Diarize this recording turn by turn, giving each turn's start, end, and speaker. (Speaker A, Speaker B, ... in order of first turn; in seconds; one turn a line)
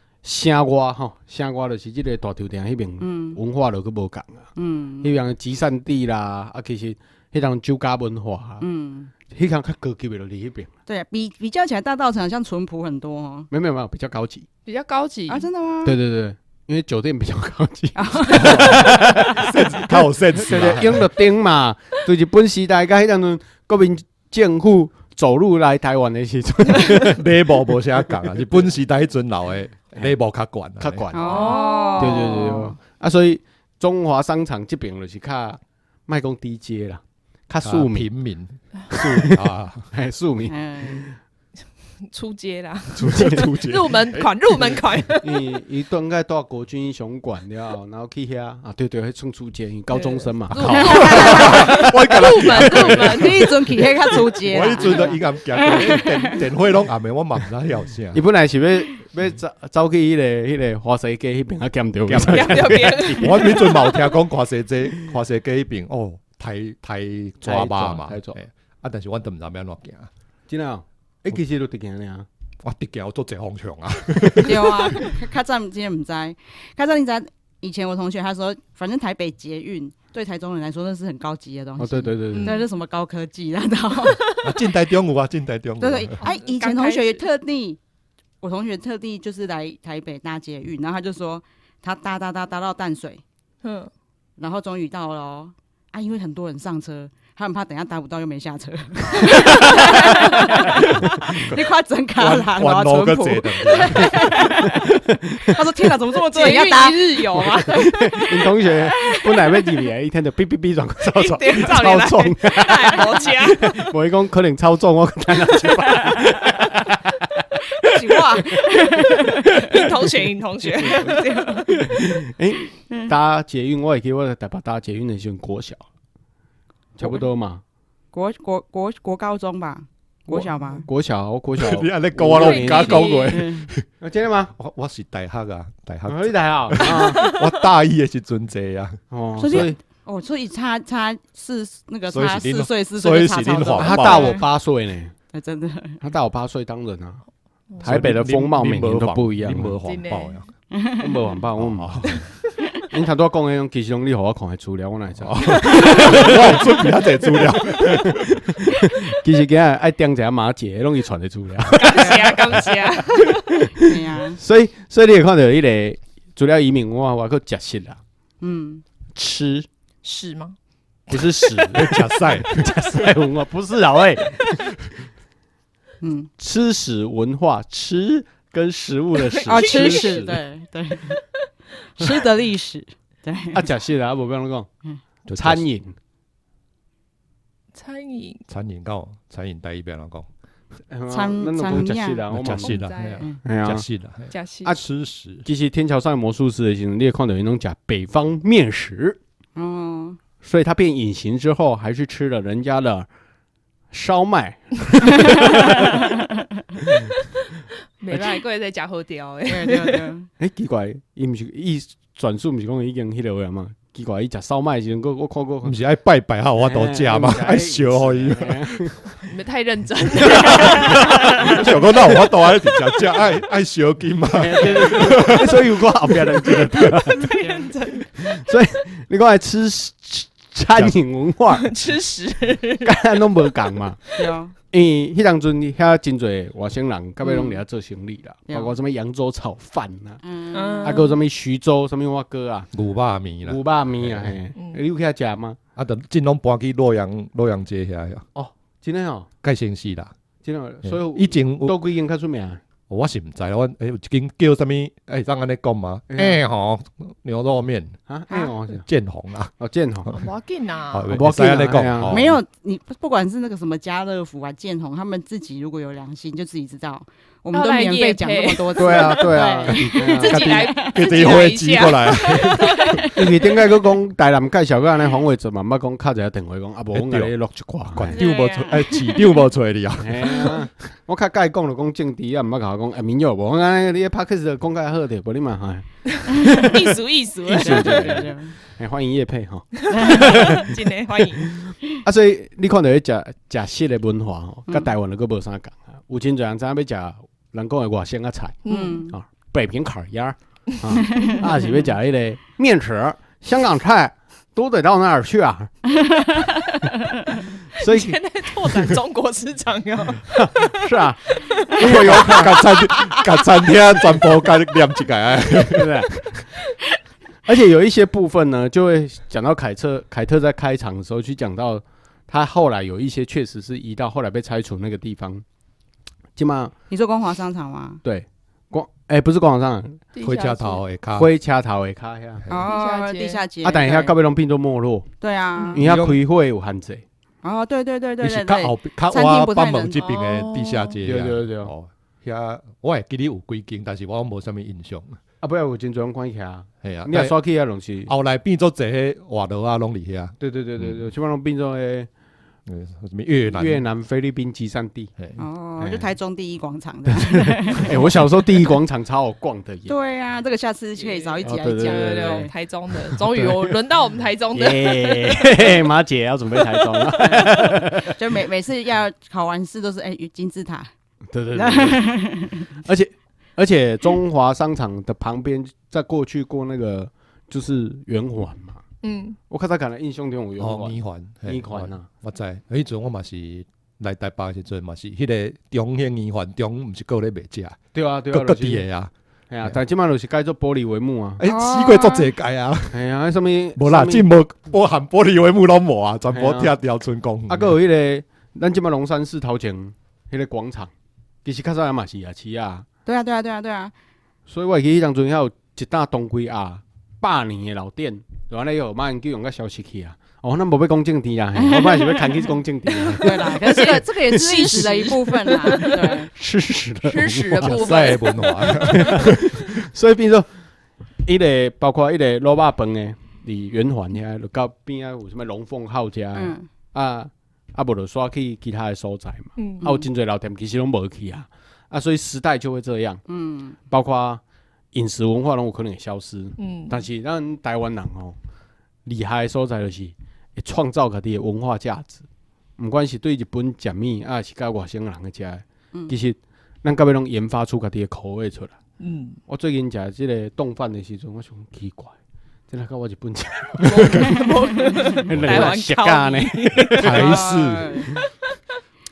Speaker A: 0.2-8.6
Speaker B: 3.0-3.4
Speaker B: 4.6-5.1
Speaker B: 8.6-9.1
Speaker A: 9.3-10.7
Speaker B: 10.9-13.5
Speaker A: 13.5-14.5
Speaker C: 14.7-15.5
Speaker B: 15.3-16.0
Speaker A: 15.8-19.5
Speaker B: 18.0-19.0
Speaker D: 18.4-21.1
Speaker A: 20.4-27.2
Speaker D: 27.1-31.1
Speaker A: 30.8-38.1
Speaker B: 31.1-32.8
Speaker C: 31.1-32.5
Speaker D: 37.6-39.9
Speaker A: 38.9-41.2
Speaker B: 40.5-41.1
Speaker C: 42.0-45.5
Speaker D: 43.0-44.3
Speaker A: 43.0-43.5
Speaker A: 45.2-51.4
Speaker C: 49.9-53.8
Speaker B: 50.7-56.4
Speaker D: 50.8-53.5
Speaker D: 54.3-58.2
Speaker A: 58.1-63.6
Speaker D: 62.1-70.1
Speaker C: 62.1-64.0
Speaker A: 67.4-68.4
Speaker A: 70.5-72.3
Speaker D: 72.6-75.1
Speaker B: 74.4-84.3
Speaker A: 81.8-82.6
Speaker C: 82.3-82.7
Speaker D: 84.4-86.2
Speaker B: 85.8-87.8
Speaker C: 86.2-87.2
Speaker B: 88.4-93.2
Speaker C: 93.6-93.9
Speaker B: 94.4-107.6
Speaker A: 99.5-100.2
Speaker D: 102.2-104.5
Speaker A: 104.7-105.6
Speaker C: 106.2-108.0
Speaker A: 107.7-118.0
Speaker C: 111.1-113.8
Speaker C: 115.8-116.1
Speaker B: 117.8-119.6
Speaker C: 119.5-121.7
Speaker A: 120.8-125.9
Speaker B: 120.8-121.7
Speaker A: 127.0-127.6
Speaker B: 128.1-130.9
Speaker A: 130.3-133.1
Speaker D: 131.6-133.9
Speaker C: 132.4-133.5
Speaker B: 132.8-133.7
Speaker A: 134.0-134.5
Speaker D: 134.6-139.7
Speaker A: 136.1-137.3
Speaker C: 137.1-137.4
Speaker A: 139.1-139.8
Speaker B: 139.4-144.3
Speaker D: 142.1-144.4
Speaker A: 143.8-145.1
Speaker B: 145.3-146.0
Speaker A: 146.0-147.2
Speaker C: 147.7-148.1
Speaker A: 147.8-149.8
Speaker D: 147.8-150.5
Speaker C: 149.8-150.5
Speaker B: 150.7-151.1
Speaker A: 151.0-152.2
Speaker D: 151.6-152.3
Speaker A: 152.9-156.5
Speaker D: 155.2-158.3
Speaker A: 157.9-162.6
Speaker C: 161.8-163.4
Speaker A: 163.3-168.0
Speaker B: 163.8-164.4
Speaker B: 168.4-168.8
Speaker A: 169.2-169.7
Speaker C: 170.0-170.6
Speaker A: 171.1-174.7
Speaker D: 171.7-172.7
Speaker B: 176.0-176.3
Speaker A: 176.4-180.4
Speaker C: 179.3-180.2
Speaker B: 179.5-181.2
Speaker B: 182.0-183.6
Speaker A: 183.5-184.7
Speaker D: 185.3-185.6
Speaker A: 185.3-186.0
Speaker C: 187.7-188.4
Speaker D: 188.5-190.3
Speaker A: 190.9-192.8
Speaker B: 191.1-192.2
Speaker D: 192.3-195.5
Speaker C: 192.6-193.3
Speaker A: 193.4-193.9
Speaker C: 194.3-194.8
Speaker A: 195.4-199.2
Speaker B: 199.5-200.2
Speaker A: 200.4-203.1
Speaker A: 203.9-206.0
Speaker C: 208.0-210.1
Speaker B: 209.5-210.3
Speaker A: 210.4-215.8
Speaker D: 215.6-218.9
Speaker A: 216.6-219.1
Speaker C: 219.2-221.5
Speaker A: 220.3-221.6
Speaker D: 220.6-225.6
Speaker A: 224.3-227.3
Speaker C: 227.2-228.1
Speaker A: 228.2-231.7
Speaker C: 231.5-232.9
Speaker A: 232.8-234.2
Speaker B: 234.2-234.6
Speaker A: 234.7-240.2
Speaker B: 237.2-237.6
Speaker B: 238.5-238.7
Speaker B: 240.2-241.1
Speaker C: 240.5-241.2
Speaker A: 240.8-242.7
Speaker D: 242.7-244.3
Speaker A: 243.4-245.6
Speaker C: 244.6-244.8
Speaker D: 245.8-248.2
Speaker A: 248.3-249.3
Speaker D: 249.4-250.1
Speaker A: 250.4-252.6
Speaker D: 250.8-251.8
Speaker D: 252.9-258.0
Speaker A: 256.1-256.4
Speaker A: 258.1-258.9
Speaker D: 258.8-259.5
Speaker A: 259.6-260.1
Speaker C: 260.1-261.2
Speaker D: 260.9-262.4
Speaker A: 261.1-262.2
Speaker B: 262.0-273.2
Speaker C: 267.5-273.1
Speaker A: 268.8-270.5
Speaker D: 270.3-273.0
Speaker A: 273.1-278.2
Speaker D: 276.9-277.3
Speaker D: 277.9-280.7
Speaker C: 278.1-279.4
Speaker A: 280.0-286.8
Speaker C: 286.4-288.2
Speaker A: 287.5-290.6
Speaker B: 287.5-288.5
Speaker C: 289.9-291.5
Speaker B: 289.9-290.3
Speaker A: 292.0-305.8
Speaker C: 298.6-299.1
Speaker B: 298.7-299.2
Speaker B: 301.1-301.4
Speaker B: 306.1-306.4
Speaker A: 307.8-308.2
Speaker C: 307.8-310.8
Speaker A: 310.3-312.6
Speaker C: 311.3-312.3
Speaker D: 311.8-316.3
Speaker A: 315.7-316.5
Speaker A: 317.5-325.4
Speaker A: 326.4-326.7
Speaker B: 326.9-328.0
Speaker A: 328.0-330.0
Speaker C: 330.1-330.8
Speaker D: 330.2-331.3
Speaker A: 331.1-332.4
Speaker B: 332.5-334.1
Speaker C: 332.6-333.4
Speaker A: 333.6-335.1
Speaker B: 335.2-335.8
Speaker A: 335.7-337.0
Speaker D: 335.8-336.2
Speaker B: 337.4-340.0
Speaker D: 338.2-345.2
Speaker C: 340.0-341.0
Speaker A: 341.0-341.7
Speaker A: 345.4-348.1
Speaker D: 346.8-347.3
Speaker D: 348.1-351.0
Speaker A: 350.4-352.1
Speaker D: 352.7-353.8
Speaker A: 353.5-355.1
Speaker D: 355.2-355.4
Speaker B: 355.4-358.1
Speaker A: 355.8-356.0
Speaker A: 357.1-359.9
Speaker B: 359.9-362.5
Speaker C: 361.0-365.8
Speaker A: 361.4-363.8
Speaker A: 364.5-368.2
Speaker B: 367.3-370.9
Speaker A: 371.3-372.1
Speaker B: 371.5-372.8
Speaker A: 372.8-378.8
Speaker C: 379.0-379.4
Speaker A: 379.5-382.1
Speaker D: 380.6-387.8
Speaker A: 387.9-388.9
Speaker D: 388.3-389.1
Speaker A: 389.5-391.4
Speaker D: 391.4-393.0
Speaker B: 391.4-392.3
Speaker A: 392.9-394.2
Speaker D: 393.8-397.7
Speaker A: 396.3-396.8
Speaker A: 397.5-400.9
Speaker A: 401.4-402.9
Speaker B: 403.1-403.9
Speaker A: 404.5-415.1
Speaker B: 411.6-412.3
Speaker B: 413.1-416.3
Speaker C: 413.4-416.2
Speaker A: 416.0-418.0
Speaker C: 417.0-419.2
Speaker D: 417.6-419.6
Speaker A: 418.8-420.5
Speaker A: 421.2-433.2
Speaker B: 426.3-426.7
Speaker C: 429.6-429.9
Speaker B: 433.3-433.8
Speaker A: 433.9-438.4
Speaker C: 436.6-437.0
Speaker A: 439.0-442.2
Speaker A: 442.8-448.8
Speaker C: 449.0-449.4
Speaker A: 449.5-452.1
Speaker A: 452.7-454.5
Speaker C: 453.8-457.7
Speaker A: 455.2-457.4
Speaker D: 457.0-458.1
Speaker B: 457.2-458.1